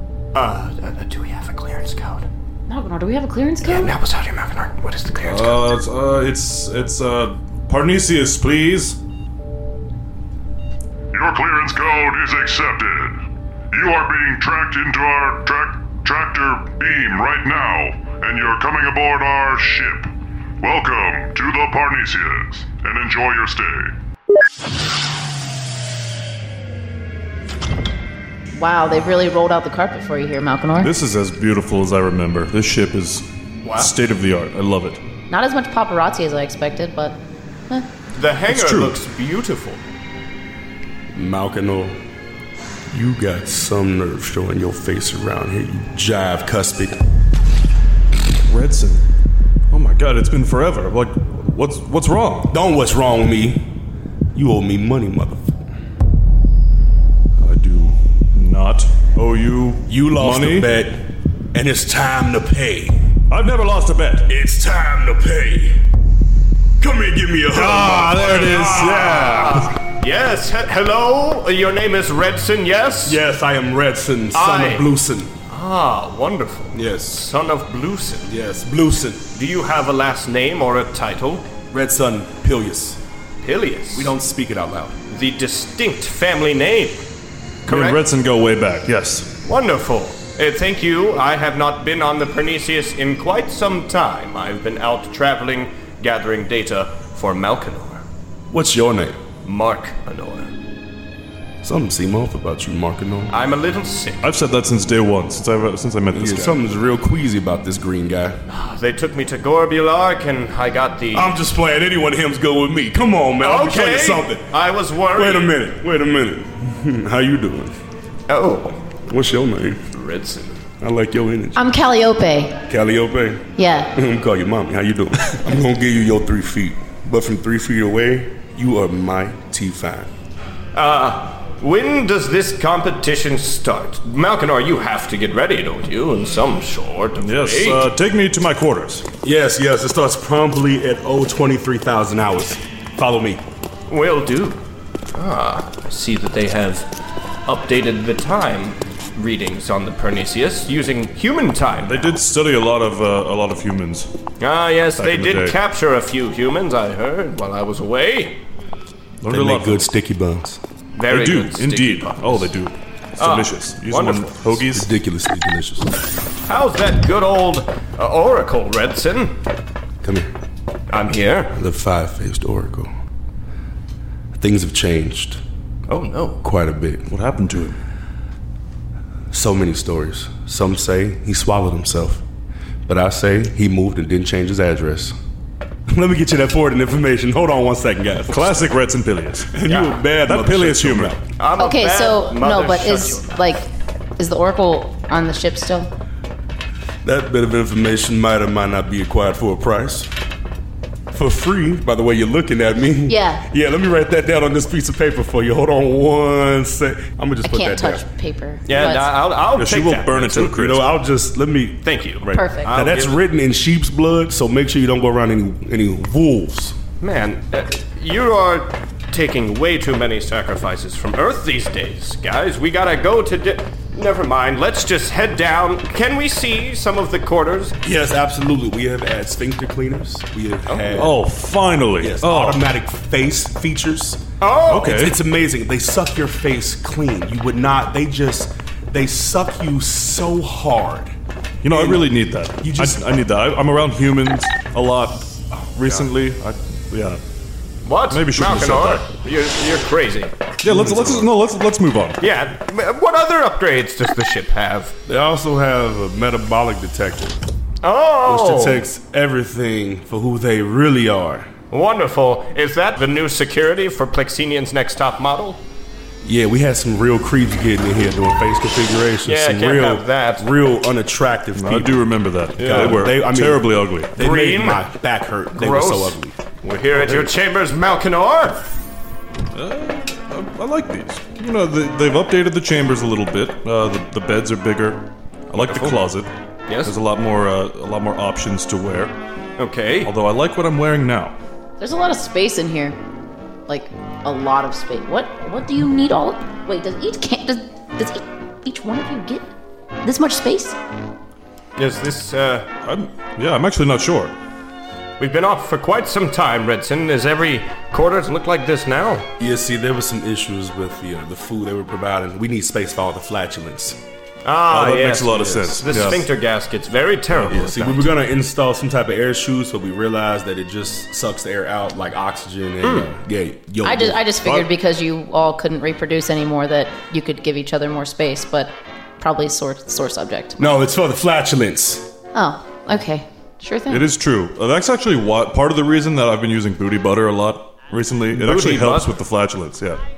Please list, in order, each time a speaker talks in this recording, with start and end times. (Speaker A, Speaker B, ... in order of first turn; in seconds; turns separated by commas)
Speaker A: 0.3-2.3, Speaker B: 2.7-3.9, Speaker A: 3.6-5.7, Speaker C: 5.2-9.0, Speaker D: 11.1-23.9, Speaker B: 28.6-30.9, Speaker C: 30.8-35.0, Speaker A: 33.6-33.9, Speaker B: 35.3-37.9, Speaker A: 38.1-39.8, Speaker C: 38.5-39.0, Speaker E: 41.1-42.0, Speaker E: 42.9-47.0, Speaker C: 48.5-49.0, Speaker C: 49.7-52.6, Speaker E: 52.5-53.7, Speaker E: 54.3-55.6, Speaker C: 57.4-60.7, Speaker E: 59.9-63.0, Speaker C: 63.3-64.3, Speaker E: 64.3-65.8, Speaker E: 66.8-69.5, Speaker C: 67.5-69.7, Speaker A: 69.2-73.2, Speaker E: 73.0-75.3, Speaker A: 74.3-74.9, Speaker A: 75.5-78.3, Speaker E: 76.7-77.2, Speaker E: 78.2-79.2, Speaker A: 79.3-81.5, Speaker E: 81.7-83.0, Speaker A: 83.4-84.1, Speaker E: 83.9-85.0, Speaker A: 85.1-87.1, Speaker A: 87.7-88.0, Speaker C: 87.7-89.3, Speaker A: 89.4-98.0, Speaker E: 98.5-99.2, Speaker A: 99.4-100.5, Speaker E: 101.6-103.3, Speaker A: 103.3-104.3, Speaker C: 104.2-106.6, Speaker E: 106.1-108.4, Speaker A: 108.5-111.3, Speaker E: 111.1-114.5, Speaker A: 113.4-115.5, Speaker E: 115.1-117.8, Speaker A: 118.3-118.8, Speaker E: 119.1-119.8, Speaker A: 119.9-120.6, Speaker E: 120.8-121.6, Speaker B: 121.5-122.6, Speaker E: 122.7-130.1, Speaker B: 123.6-123.9, Speaker A: 130.7-137.9, Speaker C: 137.2-139.1, Speaker E: 139.2-143.4, Speaker A: 143.9-144.6, Speaker A: 145.1-146.9, Speaker A: 147.4-152.2, Speaker C: 151.8-154.1, Speaker A: 154.4-158.4, Speaker C: 155.0-155.6, Speaker C: 159.2-159.9, Speaker E: 159.3-160.6, Speaker A: 160.9-162.5, Speaker C: 161.1-164.9, Speaker A: 163.2-164.6, Speaker E: 164.7-165.9, Speaker A: 166.5-169.4, Speaker E: 170.0-170.3, Speaker A: 170.9-171.6, Speaker E: 171.5-172.9, Speaker E: 174.3-175.4, Speaker A: 175.9-176.4, Speaker E: 176.4-177.1, Speaker C: 177.1-177.8, Speaker E: 179.3-182.2, Speaker E: 182.8-185.1, Speaker E: 185.9-188.7, Speaker C: 188.3-191.2, Speaker E: 189.5-191.2, Speaker A: 189.7-190.0, Speaker A: 191.3-193.3, Speaker B: 191.6-195.9, Speaker E: 197.0-200.1, Speaker E: 201.1-208.1, Speaker B: 203.1-203.4, Speaker B: 207.4-209.1, Speaker A: 208.7-210.6, Speaker C: 209.5-210.8, Speaker E: 210.5-216.8, Speaker A: 211.8-213.2, Speaker B: 212.3-212.7, Speaker A: 217.0-227.8, Speaker E: 227.8-231.2, Speaker C: 230.9-232.7, Speaker E: 232.0-234.2, Speaker A: 234.4-235.0, Speaker C: 234.7-235.1, Speaker E: 234.8-241.1, Speaker C: 241.6-247.2, Speaker E: 241.7-242.1, Speaker E: 242.6-243.0, Speaker A: 247.8-250.5, Speaker C: 248.1-249.1, Speaker C: 250.6-252.2, Speaker E: 250.6-251.3, Speaker A: 252.2-254.9, Speaker E: 255.1-257.4, Speaker A: 257.8-258.8, Speaker E: 258.2-261.5, Speaker A: 261.7-265.6, Speaker E: 266.2-276.3, Speaker A: 269.2-270.4, Speaker C: 271.5-274.1, Speaker A: 272.6-273.1, Speaker A: 274.2-274.9, Speaker A: 275.5-278.7, Speaker C: 276.9-277.3, Speaker C: 279.5-286.3, Speaker A: 285.6-286.0, Speaker A: 286.7-286.9, Speaker C: 286.8-289.1, Speaker A: 289.6-290.1, Speaker C: 290.0-291.4, Speaker B: 291.8-293.0, Speaker B: 293.7-299.5, Speaker B: 300.0-300.8, Speaker A: 301.8-302.7, Speaker C: 302.8-304.3, Speaker A: 305.2-309.3, Speaker E: 309.4-314.0, Speaker A: 314.4-318.1, Speaker C: 314.7-316.3, Speaker E: 315.2-315.9, Speaker E: 317.4-324.6, Speaker A: 322.8-323.1, Speaker B: 323.8-330.6, Speaker E: 330.6-332.1, Speaker B: 332.3-334.1, Speaker C: 333.9-340.0, Speaker A: 338.3-339.1